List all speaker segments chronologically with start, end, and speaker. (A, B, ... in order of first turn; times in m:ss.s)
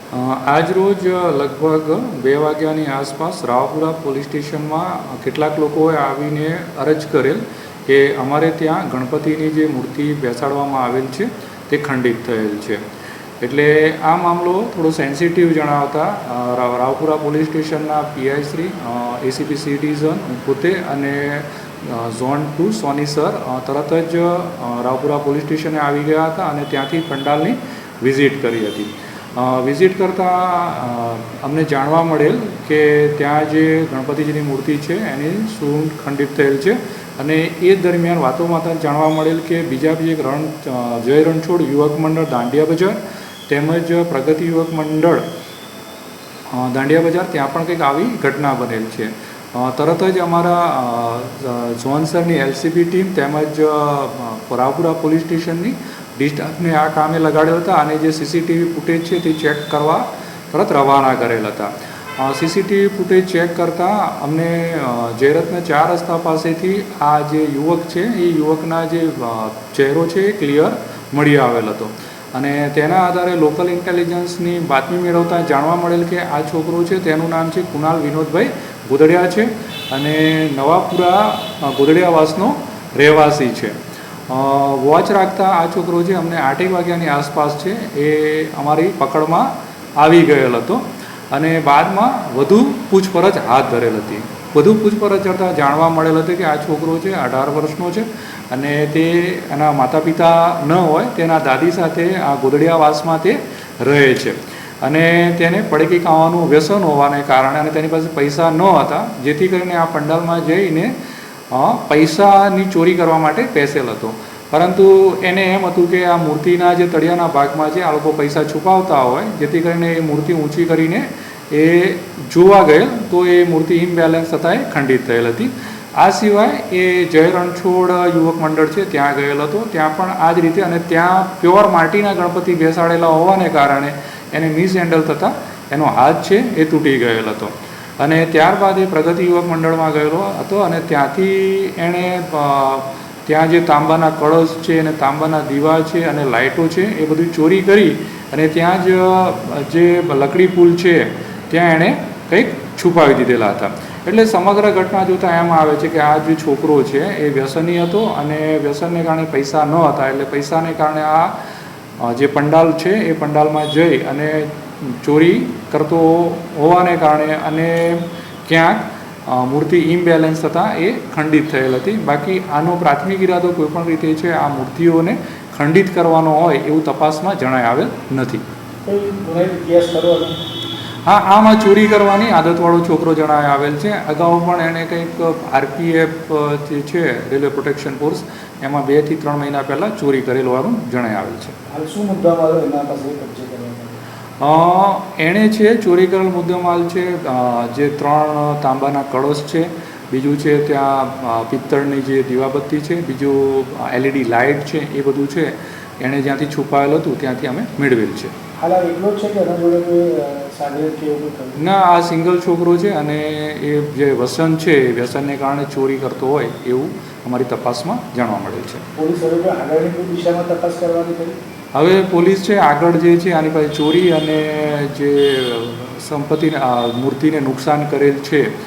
0:00.1-0:12.8 A
0:13.4-0:45.2 A
0:46.5-1:23.8 A
1:24.3-1:29.5 A
1:30.0-1:50.9 A
1:51.5-2:41.4 A
2:42.0-2:58.4 A
2:58.8-3:00.4 B
3:01.0-3:11.5 A
3:11.7-3:14.0 B
3:14.4-3:28.3 A
3:28.6-3:31.6 B
3:31.6-3:38.8 A
3:39.0-3:41.3 B
3:41.7-3:48.5 A